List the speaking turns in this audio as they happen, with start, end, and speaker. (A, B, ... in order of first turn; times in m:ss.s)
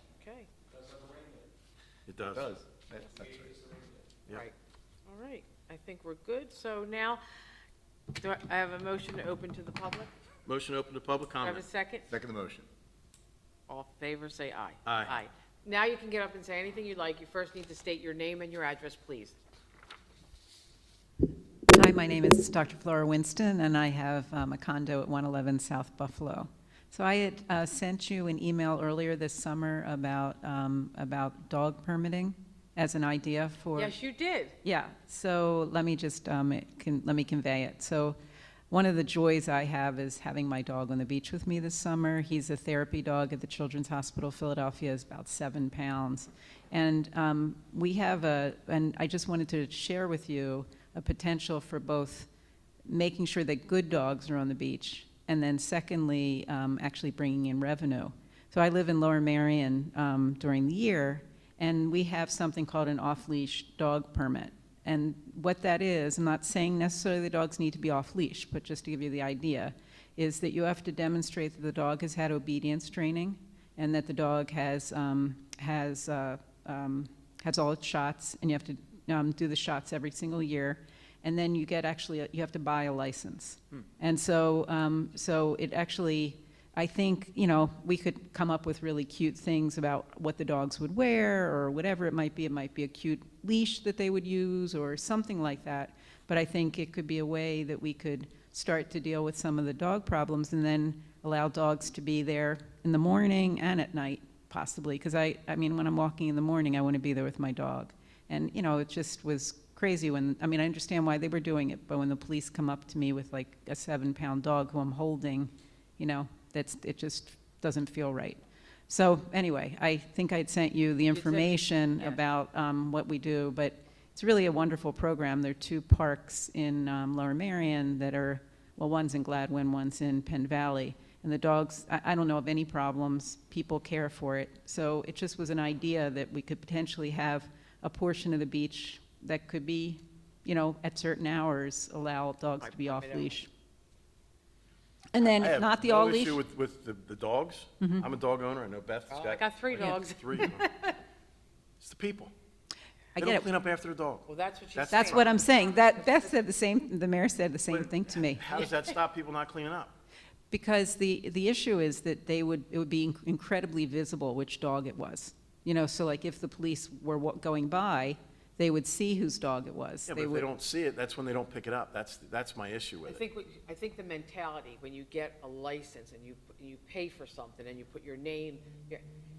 0:00.2-0:00.5 A
0:02.1-0:02.5 B
0:02.2-0:03.8 C
0:04.3-0:04.5 A
0:05.1-0:07.2 A
0:08.2-0:10.1 A
0:10.5-0:11.6 B
0:11.4-0:12.1 A
0:12.1-0:12.7 C
0:13.7-0:19.4 A
0:14.8-0:15.2 B
0:21.7-0:34.0 D
0:33.8-0:34.5 A
0:34.6-0:38.2 D
0:38.7-0:52.3 D
0:52.9-2:23.5 D
2:01.1-2:02.2 A
2:22.6-2:23.5 A
2:25.1-2:26.4 D
2:25.2-2:30.6 B
2:27.8-2:28.1 D
2:29.1-2:31.0 A
2:31.8-2:32.3 B
2:33.2-2:33.5 D
2:33.2-2:35.3 B
2:34.3-2:36.4 A
2:34.9-2:38.6 D
2:37.7-2:39.9 B
2:40.5-2:50.5 D
2:50.1-2:53.2 B
2:53.0-2:59.0 A